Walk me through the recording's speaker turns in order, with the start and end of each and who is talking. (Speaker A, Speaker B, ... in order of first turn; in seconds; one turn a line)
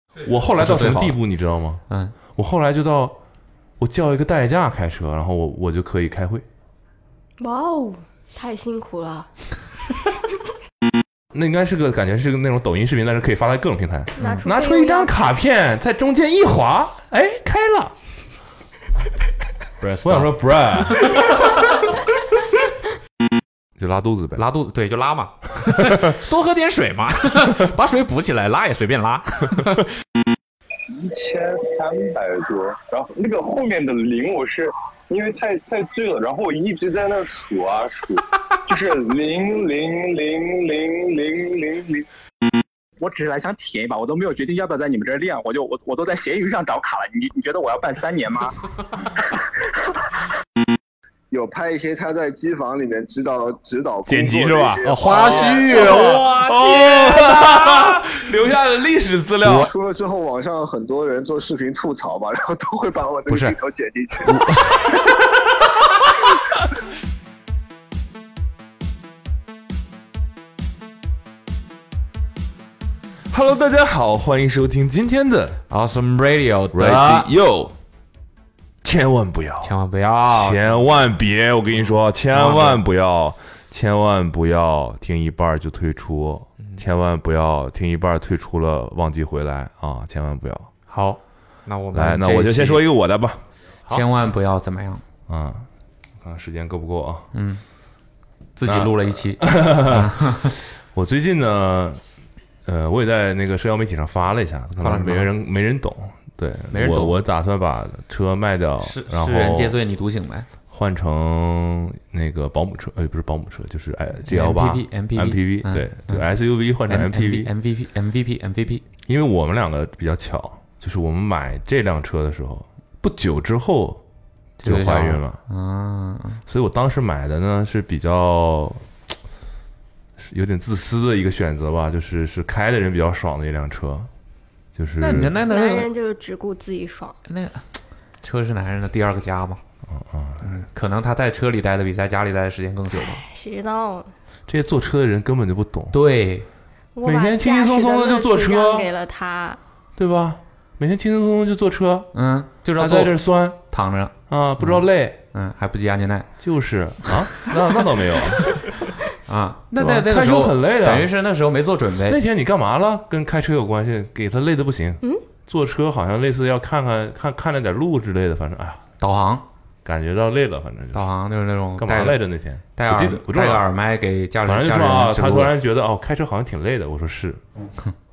Speaker A: 0.2-1.8
Speaker B: 0.6-1.2
Speaker B: 1.9-2.1
Speaker A: 2.3-3.2
Speaker A: 3.8-6.4
Speaker C: 7.4-9.3
Speaker A: 11.3-17.9
Speaker C: 14.2-15.3
Speaker B: 19.8-21.6
Speaker A: 20.0-21.2
Speaker A: 23.8-24.4
Speaker B: 24.4-29.9
Speaker D: 30.9-42.1
Speaker E: 43.0-48.5
Speaker F: 51.3-56.1
Speaker A: 54.0-59.7
Speaker B: 54.9-57.9
Speaker F: 59.4-64.4
Speaker B: 63.3-63.5
Speaker A: 64.3-64.5
Speaker A: 73.3-75.6
Speaker B: 75.7-77.3
Speaker A: 76.7-77.7
Speaker A: 78.8-90.7
Speaker B: 79.6-80.8
Speaker B: 82.3-82.8
Speaker B: 90.9-92.8
Speaker A: 91.9-94.0
Speaker B: 93.9-95.0
Speaker A: 95.3-95.7
Speaker A: 96.2-97.3
Speaker B: 97.3-97.6
Speaker B: 98.6-100.5
Speaker A: 98.6-102.0
Speaker A: 102.6-109.8
Speaker B: 104.8-105.3
Speaker B: 106.7-107.2
Speaker B: 108.8-110.5
Speaker A: 110.7-117.5
Speaker B: 114.3-116.3
Speaker B: 116.9-118.8
Speaker A: 119.0-124.0
Speaker B: 124.6-126.4
Speaker A: 124.6-125.4
Speaker A: 126.5-128.8
Speaker A: 130.2-134.1
Speaker A: 134.7-135.3
Speaker B: 135.0-135.9
Speaker C: 135.3-137.2
Speaker B: 137.2-137.7
Speaker B: 138.2-139.6
Speaker A: 139.9-140.5
Speaker B: 140.4-143.2
Speaker C: 142.9-144.1
Speaker A: 144.5-146.0
Speaker B: 145.9-146.5
Speaker C: 146.9-149.6
Speaker A: 147.0-148.9
Speaker A: 149.9-152.1
Speaker B: 152.1-156.3
Speaker A: 152.8-153.6
Speaker A: 154.3-155.2
Speaker A: 156.4-158.6
Speaker B: 159.3-162.2
Speaker A: 159.7-161.1
Speaker A: 162.0-168.8
Speaker B: 169.0-169.4
Speaker A: 169.8-171.1
Speaker B: 170.9-172.2
Speaker A: 171.8-173.7
Speaker B: 172.7-175.5
Speaker A: 174.4-177.4